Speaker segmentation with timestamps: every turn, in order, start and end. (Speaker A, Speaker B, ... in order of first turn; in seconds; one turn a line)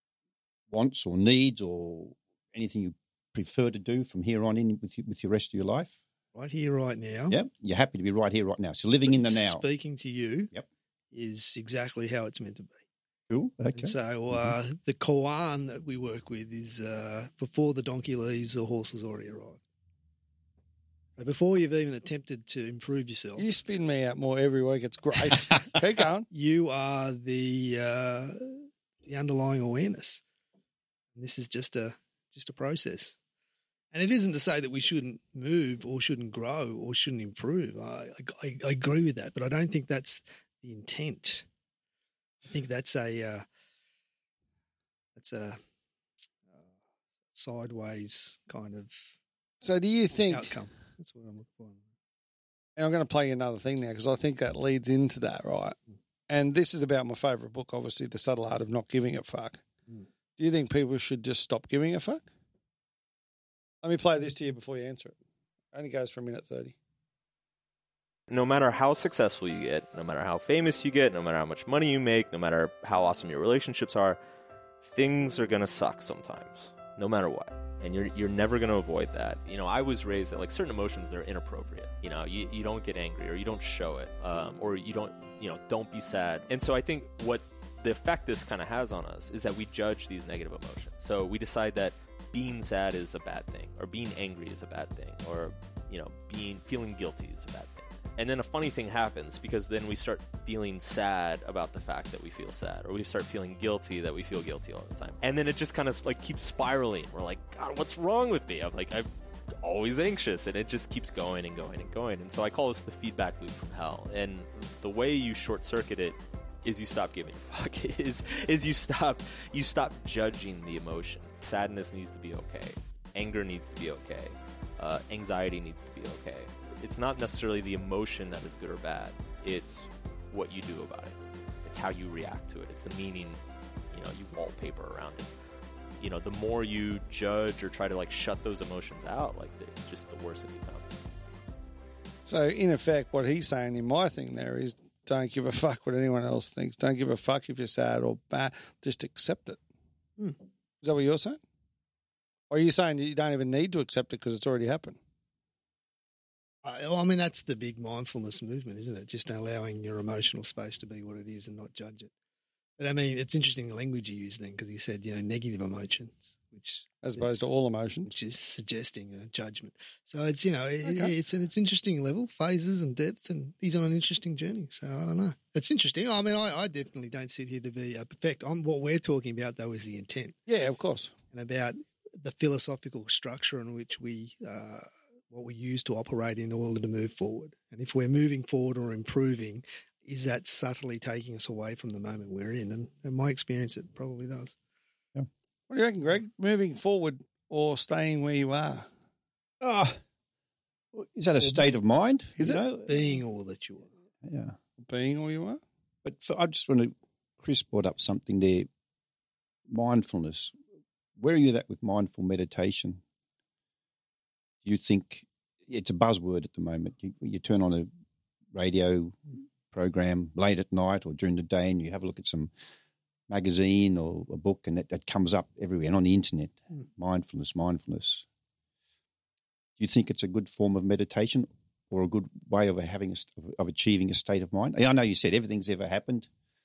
Speaker A: 0.7-6.0
Speaker B: 6.3-7.3
Speaker A: 7.3-9.6
Speaker B: 9.1-10.5
Speaker B: 11.1-12.8
Speaker A: 13.3-14.5
Speaker B: 13.7-19.6
Speaker B: 21.2-23.4
Speaker C: 23.4-26.3
Speaker B: 26.3-30.2
Speaker B: 31.1-33.1
Speaker B: 33.9-41.5
Speaker B: 42.5-43.4
Speaker B: 45.1-45.6
Speaker B: 47.3-49.1
Speaker C: 49.6-50.5
Speaker B: 50.3-51.8
Speaker C: 52.8-55.8
Speaker C: 56.3-59.6
Speaker C: 60.4-62.2
Speaker C: 63.8-65.1
Speaker C: 65.7-66.7
Speaker D: 68.3-74.2
Speaker D: 74.8-109.1
Speaker D: 109.6-135.3
Speaker D: 136.0-141.0
Speaker C: 142.3-149.6
Speaker C: 150.8-151.4
Speaker C: 152.5-155.0
Speaker B: 156.6-162.1
Speaker B: 162.8-167.3
Speaker C: 167.0-168.1
Speaker B: 168.0-180.4
Speaker C: 170.8-171.1
Speaker C: 180.5-181.1
Speaker B: 181.3-194.6
Speaker C: 195.7-198.8
Speaker A: 199.6-200.0
Speaker A: 200.9-203.1
Speaker B: 202.4-203.9
Speaker A: 204.2-204.6
Speaker C: 204.8-205.6
Speaker A: 206.0-208.7
Speaker A: 209.7-210.5
Speaker A: 211.2-213.0
Speaker A: 214.6-217.9
Speaker A: 218.5-222.5
Speaker A: 223.3-228.2
Speaker A: 229.8-236.3